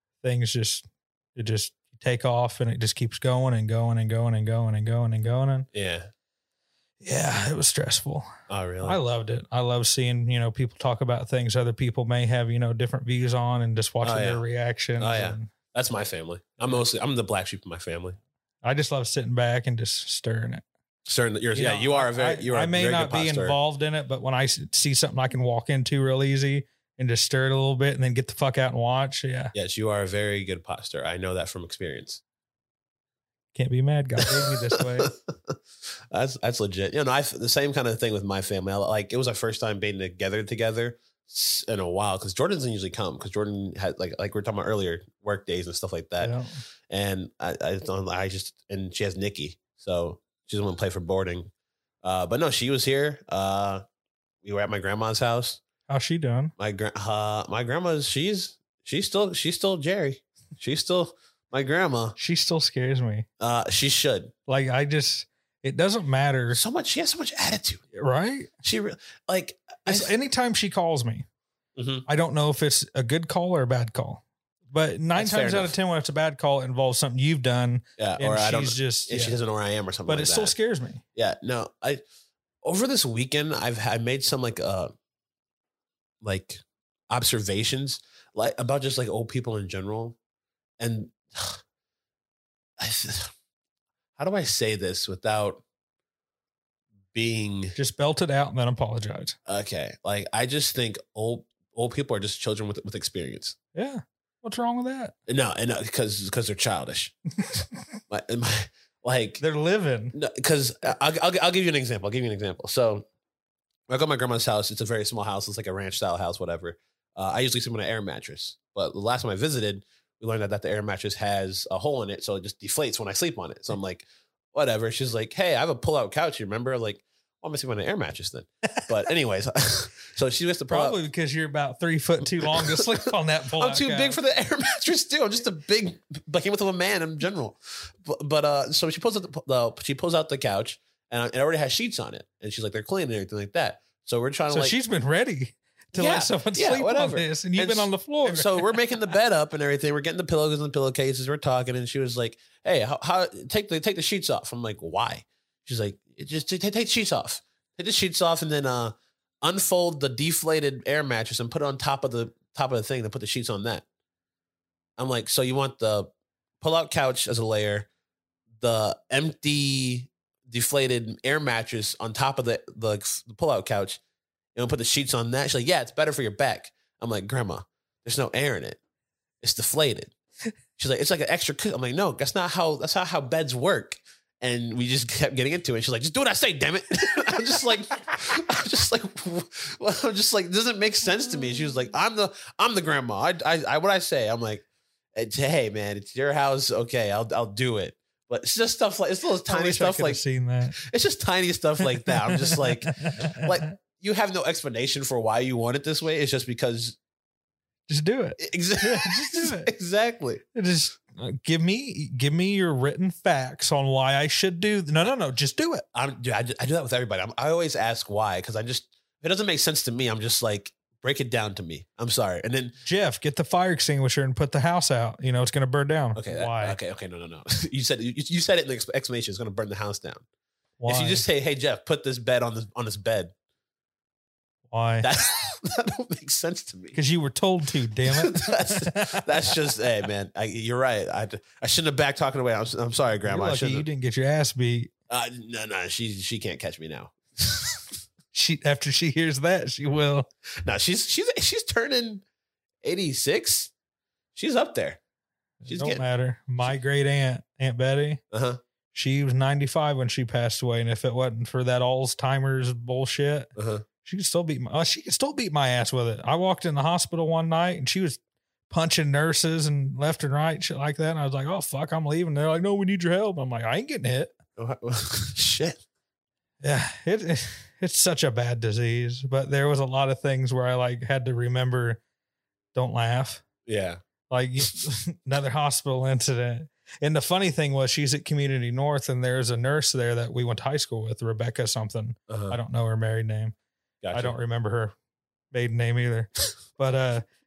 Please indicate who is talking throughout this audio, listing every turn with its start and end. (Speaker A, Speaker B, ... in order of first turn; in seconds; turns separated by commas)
Speaker A: 0.2-5.7, Speaker B: 5.7-6.1, Speaker A: 7.0-8.3, Speaker B: 8.5-9.0, Speaker A: 8.8-15.5, Speaker B: 14.0-14.4, Speaker B: 15.0-18.2, Speaker A: 18.6-20.6, Speaker B: 21.1-23.6, Speaker A: 21.5-29.5, Speaker B: 29.5-32.2, Speaker A: 33.5-35.1, Speaker B: 34.2-35.6, Speaker B: 36.1-46.4, Speaker A: 46.2-46.6, Speaker B: 46.9-51.5, Speaker B: 52.0-53.8, Speaker B: 54.4-55.6, Speaker A: 55.9-56.5, Speaker B: 56.6-62.2, Speaker A: 62.2-63.3, Speaker B: 63.4-64.3, Speaker A: 64.5-66.6, Speaker B: 66.5-67.8, Speaker A: 67.9-68.5, Speaker B: 68.6-70.1, Speaker A: 69.8-71.3, Speaker B: 71.8-72.1, Speaker A: 72.1-79.4, Speaker B: 75.2-75.7, Speaker B: 78.0-80.5, Speaker A: 80.1-81.0, Speaker B: 81.2-82.0, Speaker B: 82.6-84.9, Speaker B: 86.2-90.2, Speaker B: 90.8-91.6, Speaker B: 92.8-93.3, Speaker B: 94.2-95.6, Speaker B: 97.1-97.8, Speaker A: 97.8-99.4, Speaker B: 99.5-103.6, Speaker A: 103.8-105.1, Speaker B: 105.3-107.1, Speaker B: 108.1-109.4, Speaker A: 109.4-110.2, Speaker B: 110.1-113.1, Speaker B: 113.9-131.0, Speaker A: 130.7-134.2, Speaker B: 132.2-144.8, Speaker A: 144.5-148.8, Speaker B: 145.9-163.8, Speaker B: 165.0-167.9, Speaker B: 168.6-174.0, Speaker B: 174.6-178.8, Speaker B: 179.4-180.1, Speaker B: 180.8-200.2, Speaker A: 199.5-200.8, Speaker B: 200.8-207.0, Speaker A: 202.0-203.8, Speaker A: 207.9-209.7, Speaker B: 208.4-210.4, Speaker A: 210.6-215.8, Speaker B: 215.9-222.8, Speaker A: 222.8-226.8, Speaker B: 226.2-230.2, Speaker A: 230.8-231.2, Speaker B: 230.9-233.3, Speaker A: 234.7-235.1, Speaker B: 235.0-237.0, Speaker A: 236.9-239.5, Speaker B: 238.1-243.9, Speaker A: 243.3-244.9, Speaker B: 245.1-247.8, Speaker A: 248.3-250.3, Speaker B: 250.6-252.2, Speaker B: 252.8-253.7, Speaker B: 254.3-255.0, Speaker A: 255.6-258.2, Speaker B: 255.7-256.0, Speaker B: 258.3-258.6, Speaker A: 258.9-263.5, Speaker B: 263.6-263.8, Speaker A: 264.0-274.3, Speaker B: 274.6-275.8, Speaker A: 276.6-282.0, Speaker A: 282.7-283.4, Speaker B: 283.7-284.0, Speaker A: 284.3-293.5, Speaker B: 292.3-292.6, Speaker B: 294.0-294.4, Speaker A: 294.1-294.9, Speaker A: 295.5-297.2